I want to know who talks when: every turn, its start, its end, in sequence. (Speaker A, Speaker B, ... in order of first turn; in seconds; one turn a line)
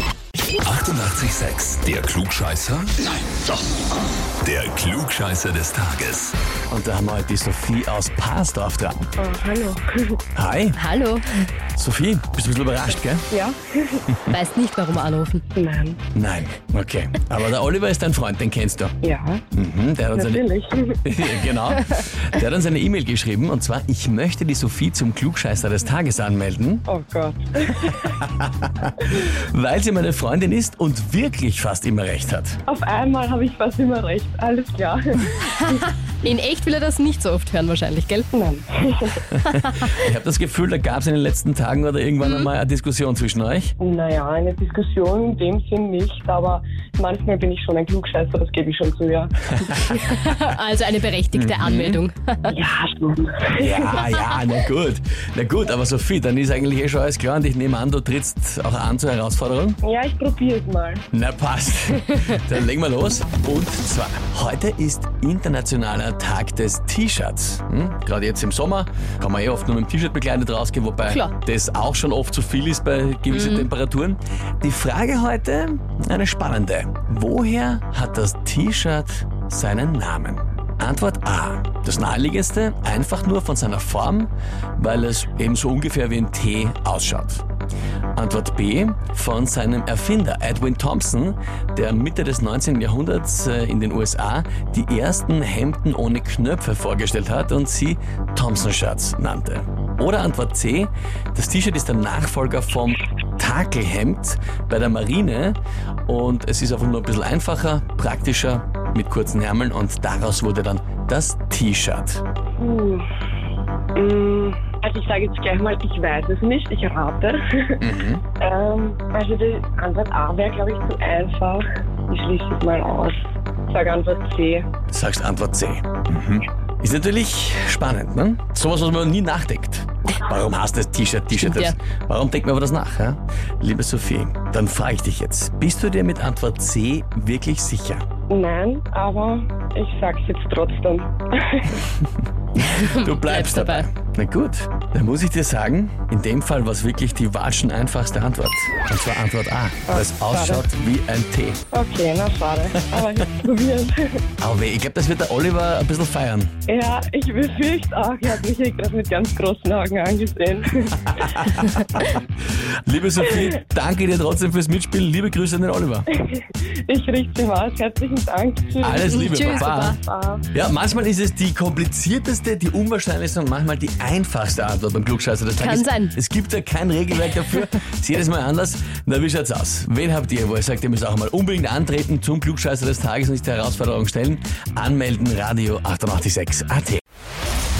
Speaker A: 0.5-3.1
Speaker A: 4.4-6.3
Speaker B: 6.7-9.1
Speaker C: 9.2-10.2
Speaker B: 10.3-10.8
Speaker D: 10.8-11.5
Speaker B: 11.8-13.3
Speaker C: 13.3-14.0
Speaker D: 14.3-15.4
Speaker C: 15.5-16.0
Speaker B: 16.1-18.9
Speaker C: 19.0-19.4
Speaker B: 19.5-20.5
Speaker C: 20.1-21.0
Speaker B: 21.0-26.9
Speaker C: 26.9-28.1
Speaker B: 27.8-32.6
Speaker C: 32.7-35.8
Speaker D: 35.5-38.3
Speaker C: 38.3-39.2
Speaker B: 39.4-43.7
Speaker D: 42.2-42.5
Speaker C: 43.8-49.7
Speaker B: 49.5-50.0
Speaker D: 49.9-52.5
Speaker B: 51.3-52.0
Speaker C: 52.5-54.0
Speaker B: 53.6-59.8
Speaker C: 59.8-61.0
Speaker B: 61.1-87.4
Speaker D: 73.3-73.7
Speaker B: 88.2-112.2
Speaker C: 112.6-113.0
Speaker C: 114.0-117.8
Speaker B: 117.8-118.2
Speaker C: 118.4-123.2
Speaker C: 123.7-124.7
Speaker B: 124.9-138.0
Speaker D: 131.3-131.7
Speaker C: 138.3-141.8
Speaker B: 142.5-151.6
Speaker D: 142.8-143.8
Speaker C: 149.9-150.7
Speaker C: 151.7-154.2
Speaker B: 152.8-153.2
Speaker B: 154.4-156.5
Speaker C: 156.7-161.6
Speaker B: 161.1-162.2
Speaker B: 162.8-166.1
Speaker C: 166.2-170.4
Speaker B: 168.8-170.0
Speaker D: 169.1-170.0
Speaker B: 170.5-187.0
Speaker D: 175.6-176.1